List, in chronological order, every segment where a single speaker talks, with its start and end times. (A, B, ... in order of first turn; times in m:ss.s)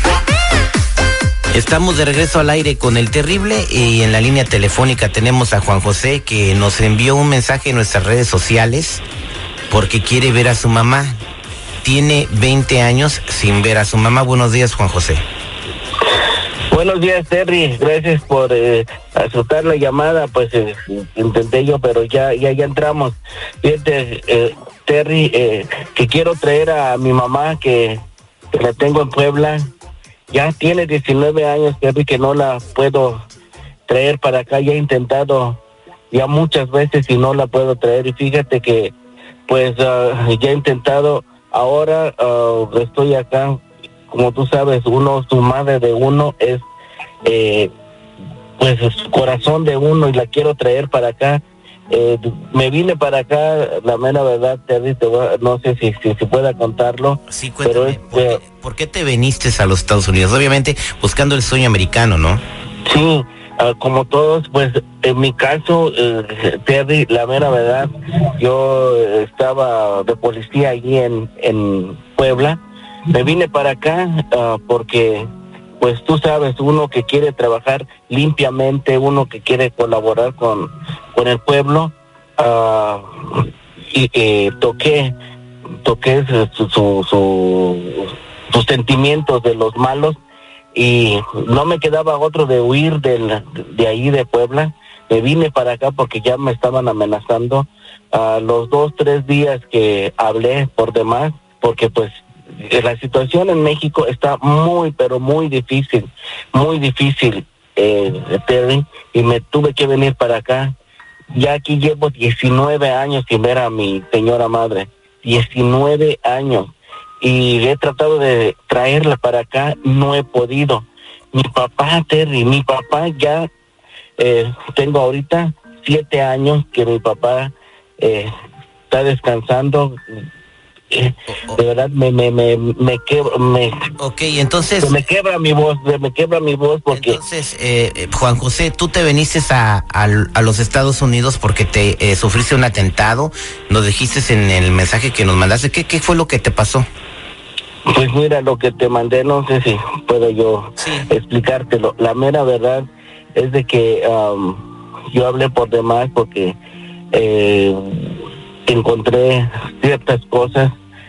0:01.5-0:09.0 A
0:09.7-0:11.2 A
0:11.8-0:15.2 A
0:16.7-0:29.7 B
0:30.3-0:33.2 B
0:33.9-0:35.6 B
0:36.1-0:38.9 B
0:39.5-0:46.6 B
0:47.2-0:47.7 B
0:48.6-0:58.4 B
0:57.3-1:02.4 A
1:02.8-1:15.3 B
1:15.8-1:25.1 B
1:25.8-1:30.2 B
1:30.7-1:50.7 B
1:51.3-2:03.5 B
2:04.2-2:08.3 B
2:08.9-2:10.0 B
2:10.9-2:13.7 B
2:14.0-2:15.0 A
2:14.8-2:17.2 B
2:16.9-2:26.8 A
2:27.9-2:36.6 B
2:30.8-2:31.1 A
2:37.1-2:38.1 B
2:38.7-2:40.7 B